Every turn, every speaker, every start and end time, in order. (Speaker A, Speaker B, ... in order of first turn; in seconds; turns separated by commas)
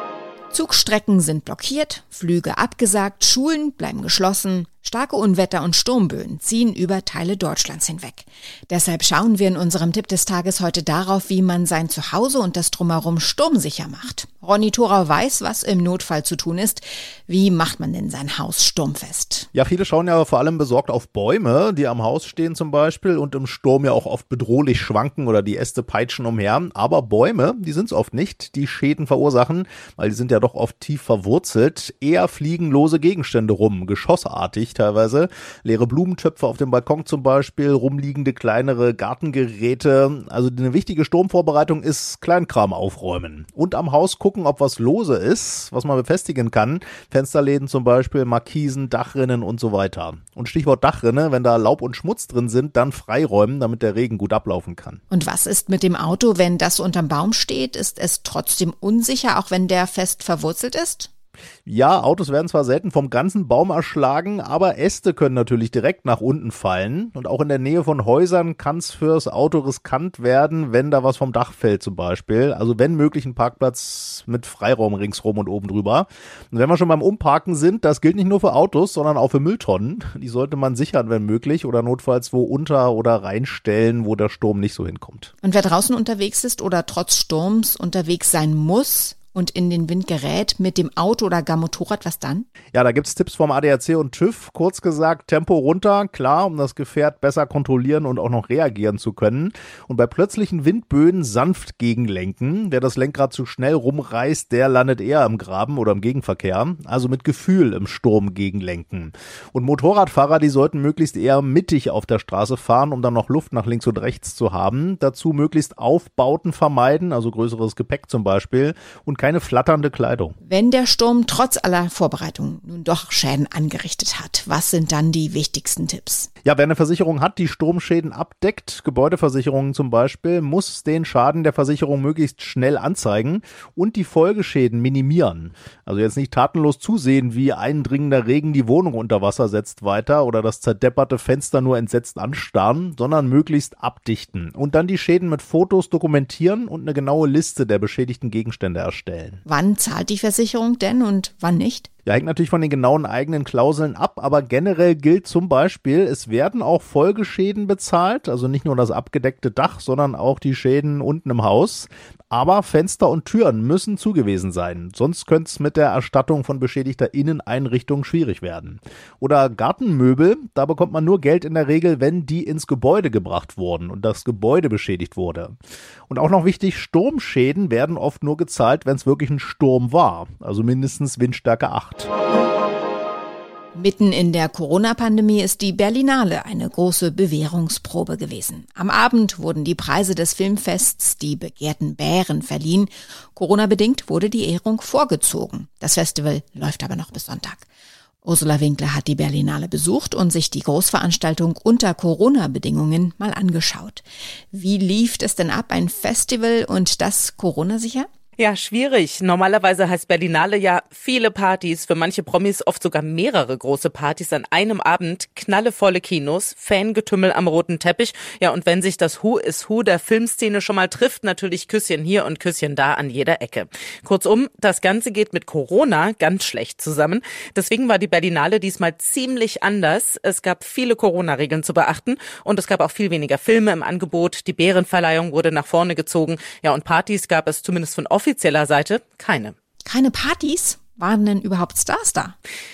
Speaker A: 0.5-19.5, Speaker B: 19.5-55.0, Speaker A: 55.1-61.1, Speaker B: 61.6-85.3, Speaker A: 85.4-92.5, Speaker B: 92.7-120.3, Speaker A: 120.5-126.3, Speaker B: 126.4-149.4, Speaker A: 149.4-151.9, Speaker B: 152.1-175.5, Speaker B: 176.1-182.1, Speaker A: 183.7-197.7, Speaker A: 198.2-208.1, Speaker C: 208.4-239.5, Speaker A: 239.8-242.3